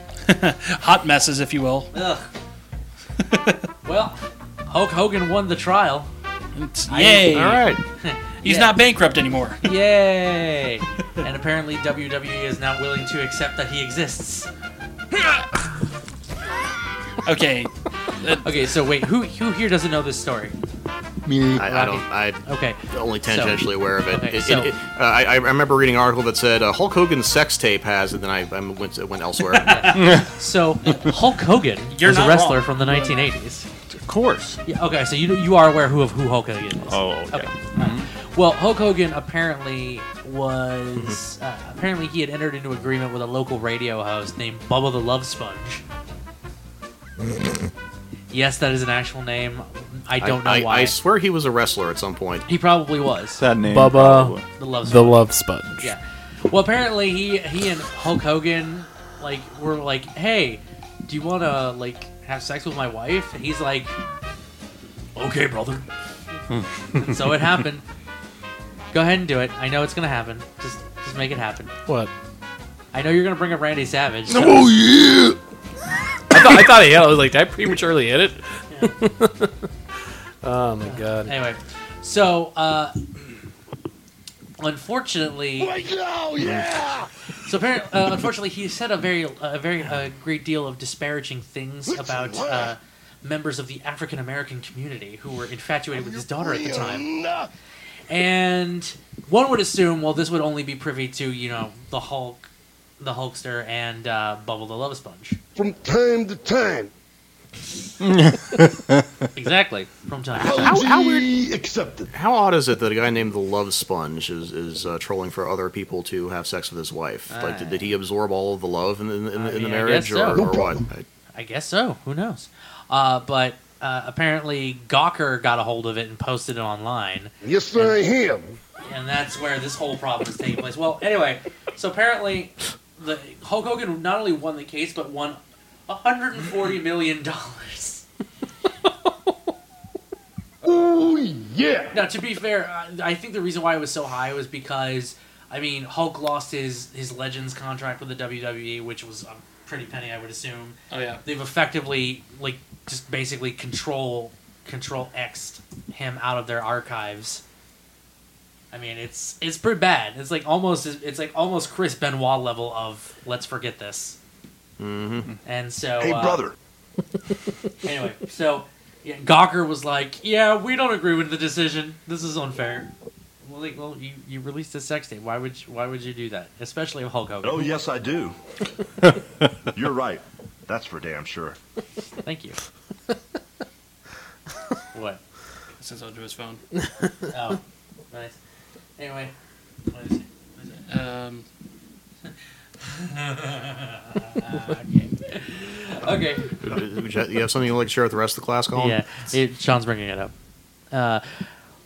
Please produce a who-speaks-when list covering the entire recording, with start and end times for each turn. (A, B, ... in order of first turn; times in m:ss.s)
0:00.2-0:01.9 A
0:01.9-0:02.3 B
0:03.2-0:03.6 A
0:03.8-0:06.1 B
0:06.5-0:07.8 A
0:06.9-0:08.8 B
0:07.3-0:07.8 C
0:08.4-0:09.7 A
0:09.6-0:14.5 B
0:17.2-0:18.4 A
0:18.3-0:20.5 B
0:21.6-0:24.7 B
0:21.6-0:30.2 C
0:29.6-0:33.7 B
0:29.8-0:30.2 A
0:31.9-0:33.3 A
0:34.6-0:45.8 B
0:36.9-0:38.0 D
0:48.3-0:51.0 B
0:50.2-0:52.4 C
0:52.4-0:53.4 B
0:53.4-0:54.4 D
0:53.6-0:55.9 E
0:54.6-0:55.2 B
0:55.8-1:04.0 B
1:05.2-1:05.8 B
1:07.0-1:07.8 B
1:08.9-1:11.7 B
1:12.9-1:14.8 B
1:16.3-1:19.5 E
1:20.4-1:21.3 E
1:20.8-1:22.9 B
1:24.6-1:25.8 B
1:25.6-1:27.1 F
1:27.4-1:37.1 B
1:31.9-1:32.7 F
1:35.9-1:37.5 F
1:38.1-1:42.4 B
1:43.0-1:45.4 B
1:45.6-1:46.9 F
1:49.3-1:50.8 B
1:50.4-1:52.1 F
1:50.6-1:51.3 C
1:52.1-2:01.0 C
1:57.3-1:58.0 B
1:59.3-2:00.5 B
2:00.3-2:00.8 F
2:01.3-2:08.0 B
2:07.4-2:08.6 F
2:08.8-2:18.0 B
2:20.6-2:22.0 F
2:21.9-2:37.4 B
2:30.9-2:31.2 A
2:38.7-2:44.2 B
2:44.8-2:45.3 C
2:45.4-2:46.4 B
2:46.0-2:46.5 G
2:47.8-2:52.9 B
2:53.4-2:57.8 B
2:57.4-2:58.4 G
2:59.7-3:01.6 G
3:02.2-3:02.6 B
3:04.9-3:05.2 B
3:05.8-3:06.6 A
3:07.3-3:07.6 B
3:08.1-3:08.4 B
3:09.0-3:09.3 B
3:09.9-3:10.8 B
3:10.8-3:11.4 A
3:12.8-3:16.5 B
3:16.6-3:19.0 C
3:18.7-3:20.3 B
3:20.9-3:21.4 B